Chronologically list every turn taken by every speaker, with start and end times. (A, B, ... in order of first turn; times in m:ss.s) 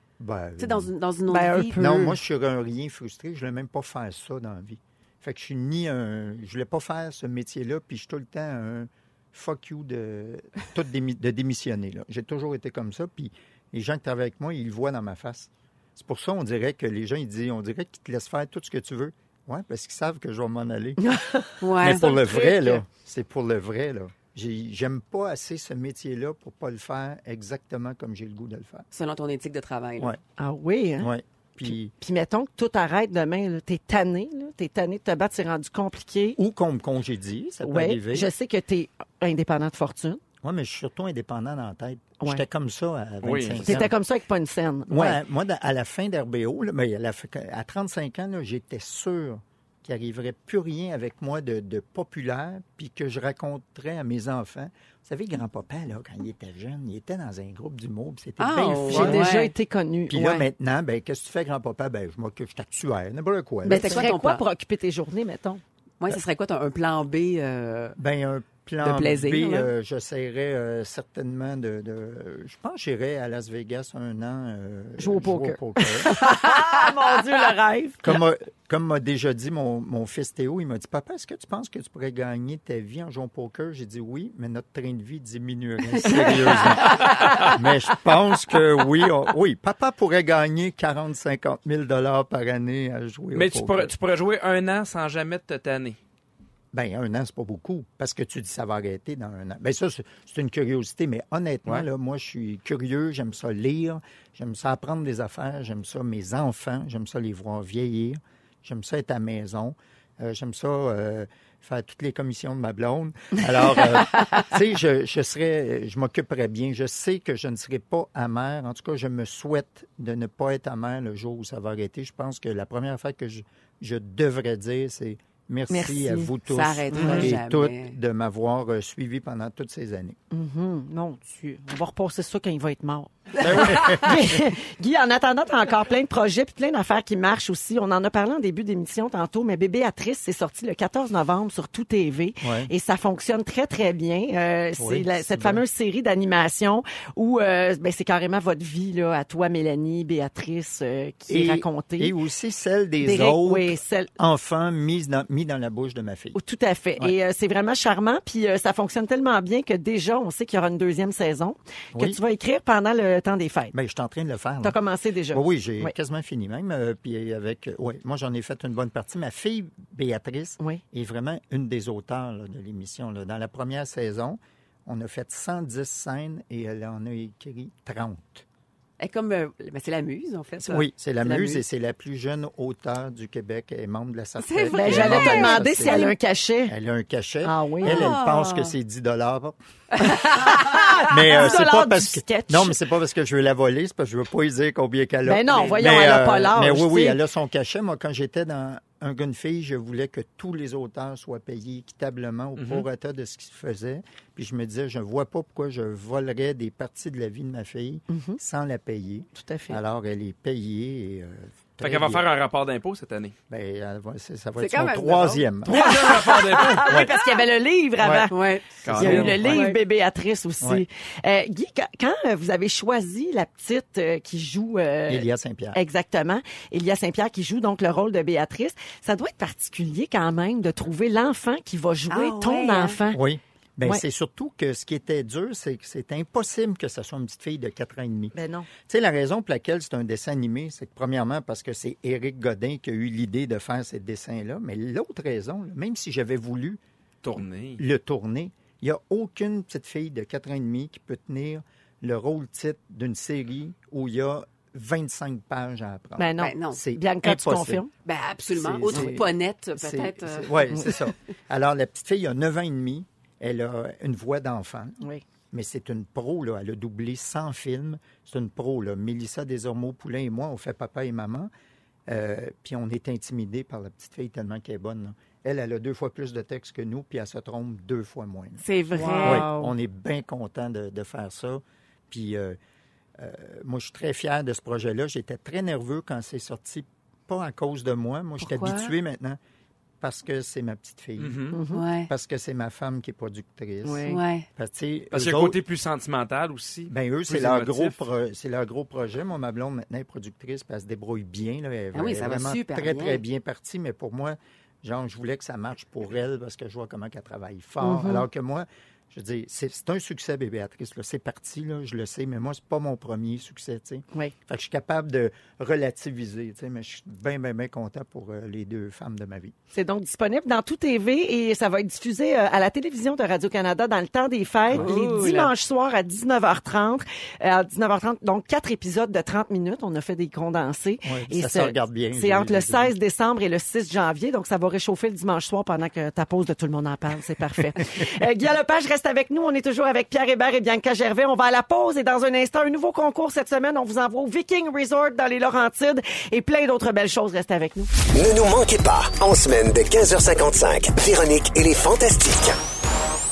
0:00.2-0:00.9 A
0:00.6-0:02.0 B
0:01.3-0:02.2 C
0:01.7-0:21.1 A
0:21.0-0:22.8 C
0:21.6-0:22.2 B
0:21.8-0:28.9 A
0:28.9-0:30.1 B
0:30.4-0:31.1 C
0:31.0-0:31.9 A
0:31.9-0:36.4 C
0:36.4-0:38.3 A
0:37.6-0:40.2 C
0:40.4-0:43.9 A
0:43.2-0:43.9 D
0:43.6-0:45.2 C
0:44.9-0:59.2 A
0:58.4-0:59.5 B
0:58.9-1:00.5 C
1:00.1-1:04.1 A
1:03.6-1:05.6 C
1:03.7-1:04.4 B
1:06.0-1:08.0 B
1:08.0-1:16.1 A
1:08.8-1:09.7 B
1:15.0-1:18.1 C
1:16.3-1:16.7 B
1:18.0-1:33.9 A
1:26.0-1:27.4 B
1:33.4-1:36.0 D
1:36.7-2:10.2 A
2:05.7-2:06.4 C
2:06.5-2:08.0 B
2:07.0-2:07.3 D
2:07.0-2:07.3 C
2:10.3-2:32.2 C
2:13.4-2:14.5 A
2:22.4-2:22.7 A
2:24.8-2:25.6 A
2:31.3-2:36.4 A
2:33.0-2:34.1 C
2:36.4-2:43.7 C
2:41.9-2:42.2 A
2:43.7-2:44.8 A
2:44.6-2:45.9 C
2:45.3-2:58.4 A
2:59.0-3:01.6 B
3:00.7-3:06.2 A
3:04.4-3:06.1 B
3:04.7-3:06.7 C
3:06.7-3:09.6 A
3:07.4-3:08.1 C
3:07.8-3:08.7 B
3:10.0-3:11.0 B
3:10.0-3:12.8 C
3:11.1-3:32.2 A
3:15.2-3:17.2 C
3:22.6-3:22.8 D
3:28.1-3:28.4 C
3:29.3-3:29.8 C
3:31.8-3:33.4 D
3:33.5-3:35.9 A
3:34.6-3:37.4 B
3:35.7-3:36.9 D
3:35.7-3:38.4 C
3:36.9-3:37.1 A
3:38.0-3:38.3 A
3:38.3-3:39.8 B
3:38.8-3:39.6 D
3:38.9-3:53.2 C
3:38.9-3:39.6 A
3:45.1-3:45.8 A
3:52.1-3:53.0 B
3:53.1-3:58.3 A
3:58.3-3:58.7 C
3:58.9-4:06.8 A
4:07.2-4:07.8 D
4:07.8-4:17.8 A
4:16.2-4:17.9 C
4:16.4-4:16.8 B
4:18.0-4:20.7 B
4:18.5-4:25.0 A
4:18.9-4:19.2 C
4:20.7-4:21.0 C
4:25.5-4:31.5 A
4:32.1-4:38.6 A
4:38.6-4:39.5 B
4:38.9-4:39.7 C
4:39.2-4:42.6 A
4:43.2-4:49.4 A
4:48.4-4:48.9 B
4:50.0-4:51.5 A
4:51.2-4:51.6 D
4:51.5-4:51.8 C
4:51.7-4:52.1 B
4:52.1-4:55.6 A
4:53.8-4:54.2 C
4:54.1-4:54.5 B
4:55.1-4:58.0 D
4:56.9-5:19.5 A
5:01.9-5:03.2 B
5:07.8-5:08.3 C
5:19.7-5:47.9 C
5:24.7-5:25.3 A
5:24.7-5:25.5 B
5:31.0-5:32.9 A
5:48.1-5:52.6 E